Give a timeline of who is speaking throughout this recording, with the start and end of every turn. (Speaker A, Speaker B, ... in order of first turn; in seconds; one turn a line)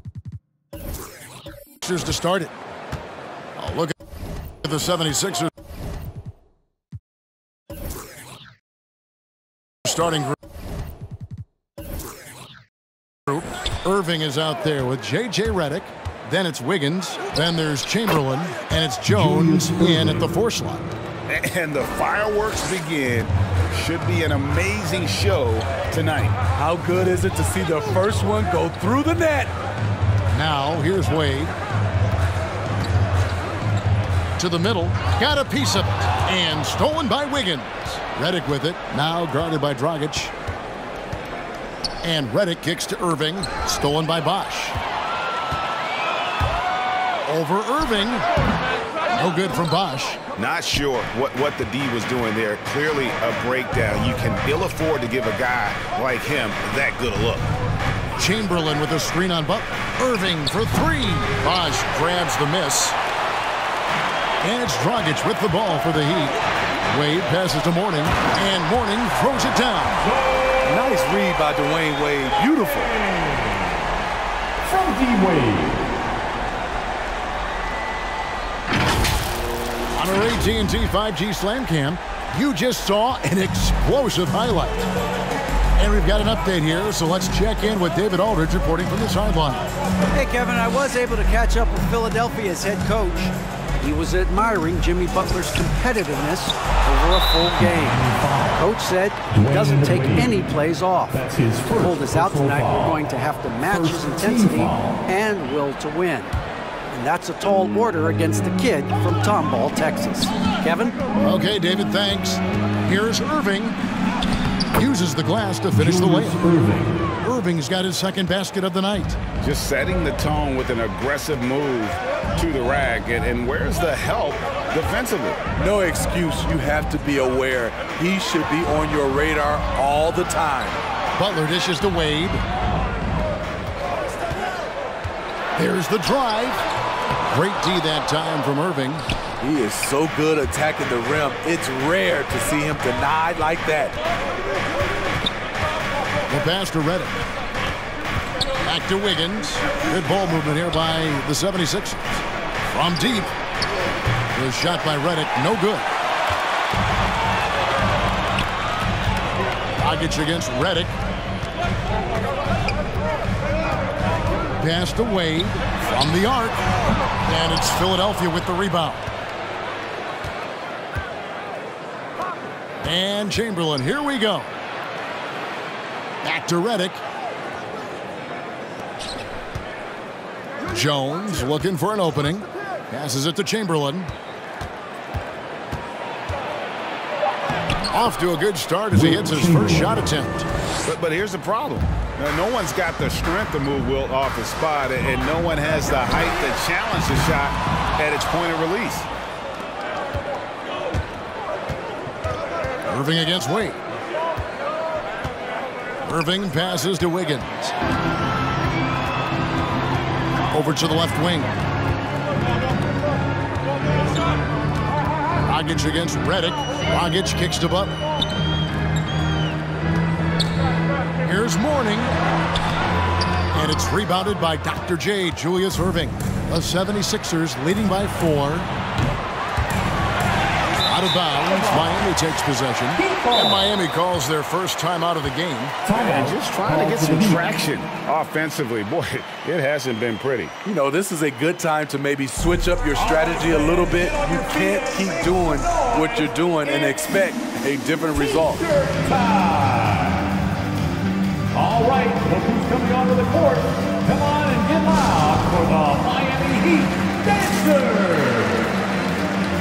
Speaker A: 1.8-2.5
Speaker A: 3.6-4.0
Speaker A: 4.6-5.5
Speaker A: 9.8-10.4
Speaker A: 13.3-20.9
Speaker B: 19.1-20.3
Speaker C: 21.3-26.4
Speaker D: 26.6-29.5
Speaker A: 30.3-31.5
Speaker A: 34.4-40.3
Speaker A: 42.0-44.8
Speaker A: 47.3-48.3
Speaker A: 49.1-50.2
Speaker C: 50.4-57.5
Speaker A: 58.2-63.0
Speaker A: 64.4-70.1
Speaker D: 70.6-73.0
Speaker B: 74.6-75.9
Speaker A: 79.9-84.9
Speaker A: 85.8-89.7
Speaker E: 90.1-106.3
Speaker B: 97.6-98.7
Speaker B: 99.3-100.4
Speaker B: 101.1-103.0
Speaker B: 103.7-105.0
Speaker E: 106.9-111.0
Speaker A: 111.2-113.8
Speaker A: 114.8-116.5
Speaker B: 115.7-117.1
Speaker A: 117.2-119.2
Speaker C: 119.4-125.4
Speaker D: 125.6-130.8
Speaker A: 131.2-132.4
Speaker A: 135.6-136.6
Speaker A: 137.3-139.0
Speaker D: 139.4-144.0
Speaker A: 146.3-147.2
Speaker A: 148.6-153.3
Speaker A: 154.3-155.9
Speaker A: 159.8-160.9
Speaker A: 164.6-166.7
Speaker A: 167.2-169.0
Speaker A: 172.8-174.5
Speaker A: 176.2-177.0
Speaker A: 180.7-184.1
Speaker A: 187.9-190.5
Speaker B: 189.0-189.9
Speaker C: 190.8-199.1
Speaker A: 202.9-203.8
Speaker A: 206.0-207.7
Speaker A: 210.5-211.6
Speaker A: 215.5-217.9
Speaker A: 221.2-222.1
Speaker A: 223.5-228.7
Speaker A: 230.9-235.8
Speaker B: 233.0-233.6
Speaker B: 235.8-237.4
Speaker C: 235.9-240.5
Speaker D: 240.7-248.6
Speaker B: 242.9-247.0
Speaker B: 248.1-250.3
Speaker B: 251.5-258.7